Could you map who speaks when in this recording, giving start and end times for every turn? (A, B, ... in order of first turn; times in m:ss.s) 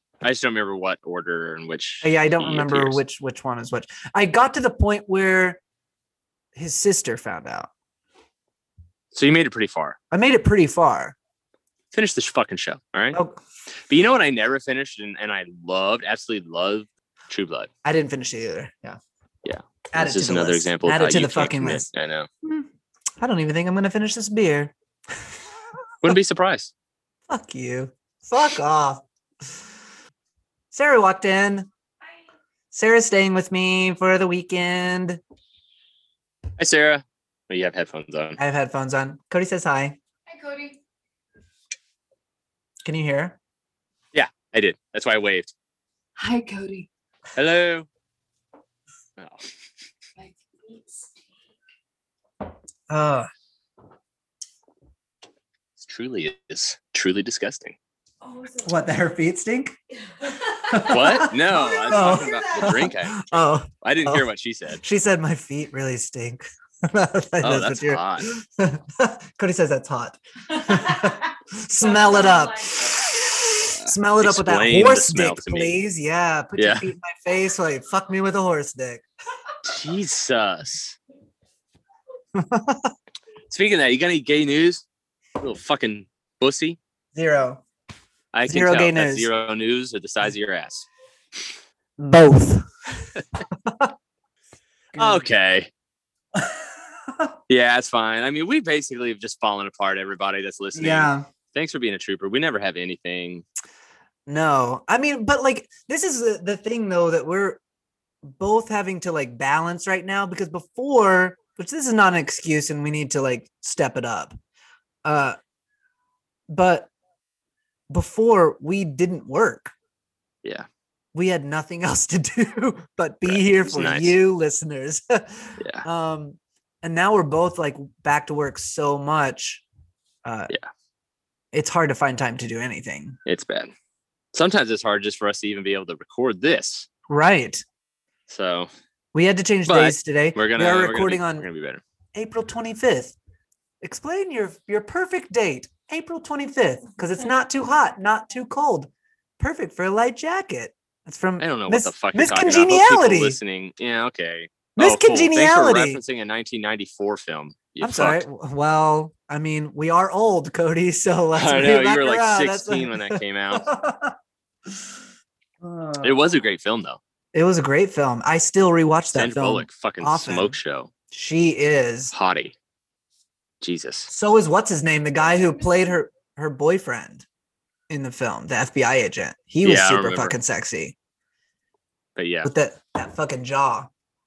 0:00.2-0:03.0 A
0:02.0-0:05.6 B
0:06.5-0:07.7 B
0:09.1-0:10.0 A
0:10.1-0:11.2 B
0:11.9-0:13.2 A
0:13.1-0:13.4 B
0:13.9-0:17.7 A
0:17.8-0:19.0 B
0:19.4-0:22.3 A
0:19.9-0:21.9 B
0:23.2-0:24.7 B
0:26.0-0:26.7 A
0:27.3-0:29.0 B
0:30.7-0:31.7 B
0:32.7-0:35.2 B
0:36.6-0:38.4 A
0:38.4-0:40.0 B
0:40.3-0:40.8 C
0:42.8-0:43.4 B
0:44.1-0:45.5 A
0:46.2-0:46.9 C
0:47.3-0:47.9 A
0:49.2-0:49.4 A
0:50.2-0:51.2 C
0:52.9-0:53.3 B
0:55.8-0:57.8 A
0:58.2-0:58.8 C
0:58.6-0:59.7 B
1:00.2-1:02.9 C
1:00.7-1:04.3 B
1:00.8-1:04.8 A
1:04.8-1:19.0 B
1:07.4-1:08.3 A
1:10.6-1:11.2 C
1:11.8-1:12.8 C
1:13.7-1:15.8 A
1:16.6-1:16.9 A
1:19.6-1:21.0 A
1:22.3-1:22.9 B
1:23.5-1:24.8 A
1:25.4-1:26.8 A
1:27.1-1:27.6 B
1:28.3-1:30.8 A
1:28.5-1:29.3 B
1:32.0-1:33.9 B
1:34.9-1:35.2 B
1:35.0-1:35.7 A
1:36.3-1:37.3 B
1:37.5-1:43.4 A
1:40.7-1:41.2 B
1:44.3-1:47.6 B
1:48.2-1:54.4 B
1:55.0-1:55.4 B
1:56.5-1:56.9 B
1:57.9-1:59.7 B
2:01.1-2:09.6 B
2:03.3-2:04.2 A
2:05.6-2:05.8 A
2:10.2-2:10.5 B
2:11.5-2:13.2 B
2:13.2-2:13.7 A
2:14.3-2:16.9 A
2:17.1-2:17.6 B
2:18.3-2:18.7 A
2:19.1-2:21.4 B
2:19.7-2:21.8 A
2:22.1-2:23.1 B
2:23.8-2:33.4 B
2:31.4-2:38.2 A
2:34.8-2:36.0 B
2:37.8-2:44.2 B
2:41.3-2:43.7 A
2:45.6-2:46.2 B
2:46.0-2:47.0 A
2:47.3-2:50.6 B
2:49.1-2:50.9 A
2:51.1-2:52.1 B
2:52.1-2:52.5 A
2:53.6-2:54.1 A
2:54.1-2:57.2 B
2:57.9-3:00.9 B
2:59.6-3:00.4 A
3:02.2-3:02.5 A
3:02.4-3:03.9 B